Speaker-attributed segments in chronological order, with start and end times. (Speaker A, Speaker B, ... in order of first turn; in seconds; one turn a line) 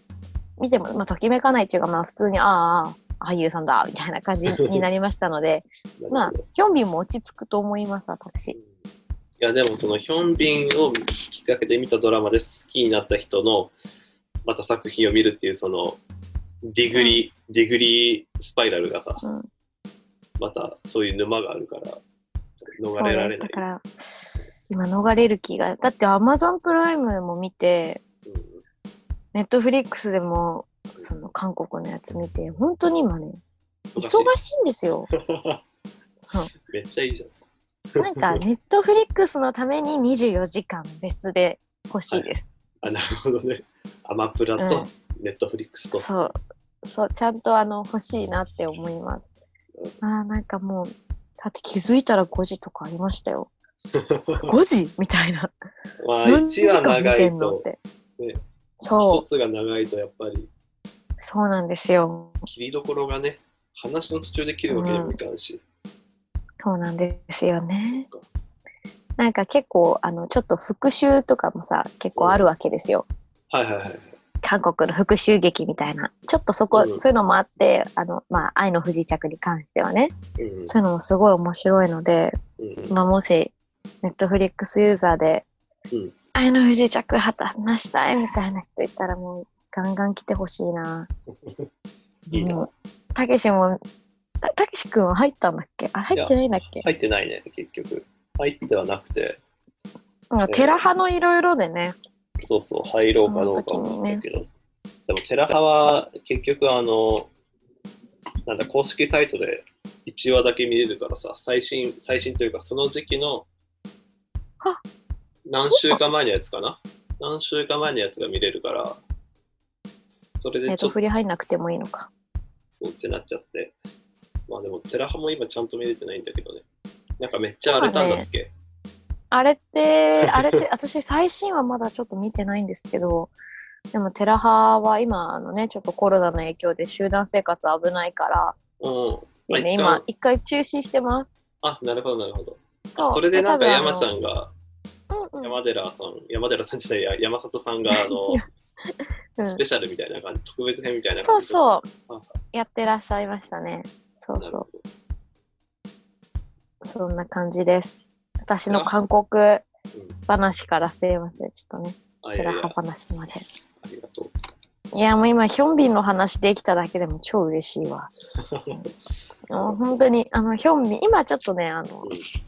Speaker A: 0.6-8.6
Speaker B: 4.5-4.8
Speaker B: 6.0-6.4
Speaker B: 8.5-8.8
Speaker B: 9.4-13.7
Speaker B: 14.4-16.0
Speaker B: 16.6-19.2
Speaker A: 16.9-17.2
Speaker A: 19.2-19.5
Speaker B: 20.4-22.0
Speaker B: 22.6-23.6
Speaker A: 22.9-23.9
Speaker A: 24.7-28.0
Speaker B: 28.2-28.6
Speaker A: 29.3-33.4
Speaker B: 33.9-34.3
Speaker A: 34.0-35.1
Speaker B: 35.1-35.6
Speaker B: 36.6-37.3
Speaker B: 37.9-38.4
Speaker A: 38.0-42.5
Speaker B: 42.8-46.1
Speaker A: 44.6-44.9
Speaker A: 45.9-49.3
Speaker B: 49.8-50.0
Speaker A: 50.0-53.5
Speaker B: 53.9-54.5
Speaker A: 54.4-55.5
Speaker B: 56.0-57.6
Speaker A: 56.2-57.8
Speaker A: 58.8-59.2
Speaker B: 59.0-60.5
Speaker A: 61.2-62.4
Speaker B: 62.5-65.6
Speaker A: 64.7-65.2
Speaker A: 66.6-68.1
Speaker A: 69.2-73.0
Speaker B: 72.2-72.5
Speaker B: 73.5-74.2
Speaker A: 74.4-80.1
Speaker B: 76.7-77.0
Speaker B: 80.4-80.7
Speaker A: 80.7-82.4
Speaker B: 82.6-83.0
Speaker A: 82.9-85.5
Speaker A: 86.3-91.1
Speaker B: 92.3-92.7
Speaker A: 92.3-93.8
Speaker A: 94.4-96.8
Speaker B: 96.1-99.4
Speaker A: 100.3-102.0
Speaker B: 100.5-100.8
Speaker B: 102.4-104.5
Speaker A: 103.3-104.2
Speaker B: 105.1-107.3
Speaker B: 108.5-113.5
Speaker B: 115.5-119.0
Speaker A: 115.7-116.0
Speaker B: 120.4-121.0
Speaker A: 120.7-122.1
Speaker B: 122.8-123.7
Speaker B: 124.5-126.6
Speaker B: 127.2-128.5
Speaker A: 127.6-128.2
Speaker A: 129.3-133.3
Speaker B: 130.2-130.6
Speaker A: 133.9-138.6
Speaker B: 138.8-140.0
Speaker A: 139.5-141.3
Speaker B: 141.6-144.5
Speaker A: 142.9-144.1
Speaker A: 145.1-145.6
Speaker B: 145.4-148.4
Speaker A: 147.9-148.4
Speaker B: 149.4-152.3
Speaker A: 151.2-151.9
Speaker A: 152.5-154.6
Speaker B: 154.4-154.8
Speaker A: 156.8-159.7
Speaker B: 158.7-159.0
Speaker A: 160.3-163.4
Speaker B: 162.2-162.8
Speaker B: 163.8-164.3
Speaker A: 164.9-168.1
Speaker B: 168.4-168.9
Speaker A: 169.5-172.2
Speaker B: 169.5-170.0